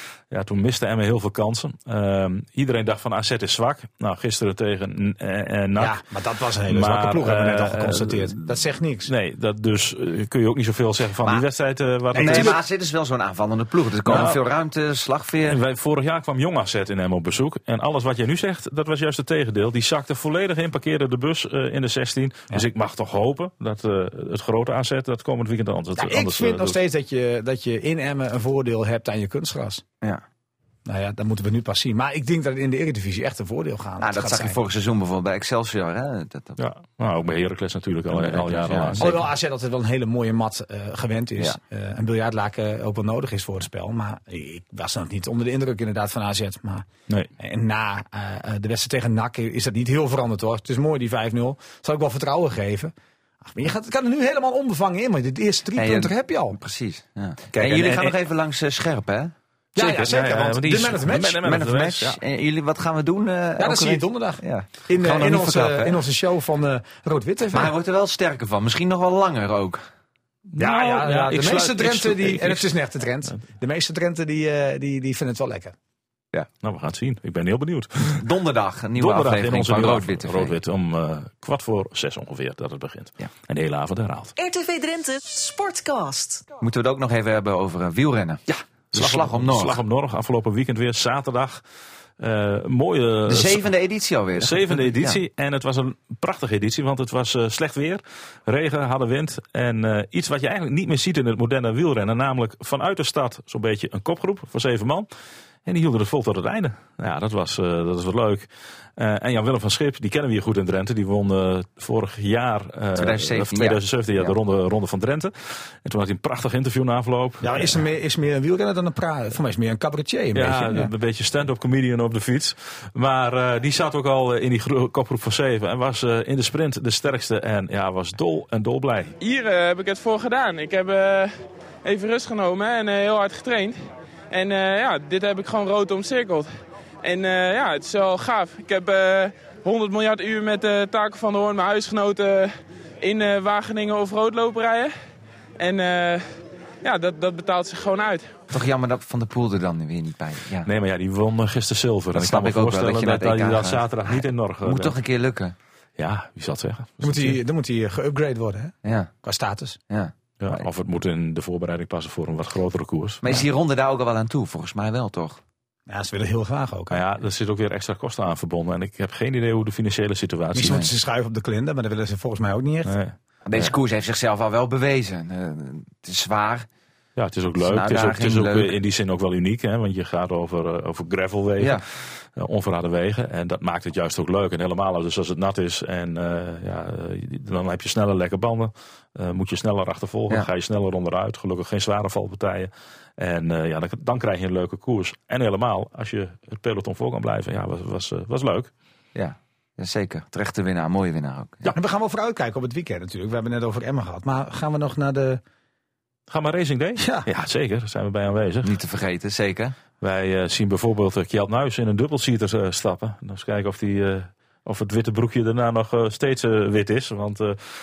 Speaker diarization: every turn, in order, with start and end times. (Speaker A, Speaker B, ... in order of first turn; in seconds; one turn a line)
Speaker A: 0.3-6.0
Speaker B: 5.8-9.1
Speaker A: 6.7-8.4
Speaker A: 9.1-12.6
Speaker C: 11.2-11.5
Speaker B: 12.1-12.6
Speaker C: 12.2-15.6
Speaker A: 14.1-14.4
Speaker A: 15.5-26.8
Speaker B: 26.0-29.8
Speaker B: 30.9-34.6
Speaker C: 34.0-36.6
Speaker A: 36.6-39.2
Speaker C: 38.1-39.2
Speaker B: 39.0-46.9
Speaker B: 47.4-52.9
Speaker B: 53.4-56.6
Speaker C: 55.8-59.3
Speaker A: 57.5-58.2
Speaker B: 59.8-61.4
Speaker A: 59.8-62.2
Speaker C: 61.4-66.0
Speaker B: 63.6-67.7
Speaker C: 67.5-69.8
Speaker A: 70.5-72.7
Speaker B: 70.6-75.7
Speaker A: 76.6-78.2
Speaker C: 78.2-80.6
Speaker A: 79.0-84.3
Speaker D: 84.4-86.5
Speaker C: 86.5-89.8
Speaker A: 88.5-91.6
Speaker A: 92.2-93.7
Speaker C: 93.3-95.2
Speaker A: 94.4-105.1
Speaker A: 105.7-108.5
Speaker A: 109.0-117.8
Speaker C: 113.0-114.4
Speaker B: 117.4-120.9
Speaker A: 120.3-129.2
Speaker E: 129.2-145.0
Speaker E: 145.6-148.4
Speaker C: 148.5-150.7
Speaker A: 150.7-155.0
Speaker C: 152.2-155.6
Speaker A: 156.0-157.4
Speaker B: 157.0-159.8
Speaker C: 158.8-159.1
Speaker C: 159.9-160.7
Speaker A: 160.4-163.5
Speaker C: 163.2-165.4
Speaker B: 165.9-167.0
Speaker A: 166.9-170.9
Speaker B: 170.5-172.9
Speaker C: 170.6-170.9
Speaker A: 172.9-173.7
Speaker C: 173.5-176.7
Speaker A: 177.2-198.7
Speaker C: 177.6-178.8
Speaker C: 199.2-201.7
Speaker B: 201.7-205.4
Speaker A: 206.3-208.8
Speaker B: 207.0-207.3
Speaker C: 208.6-209.8
Speaker A: 210.0-217.6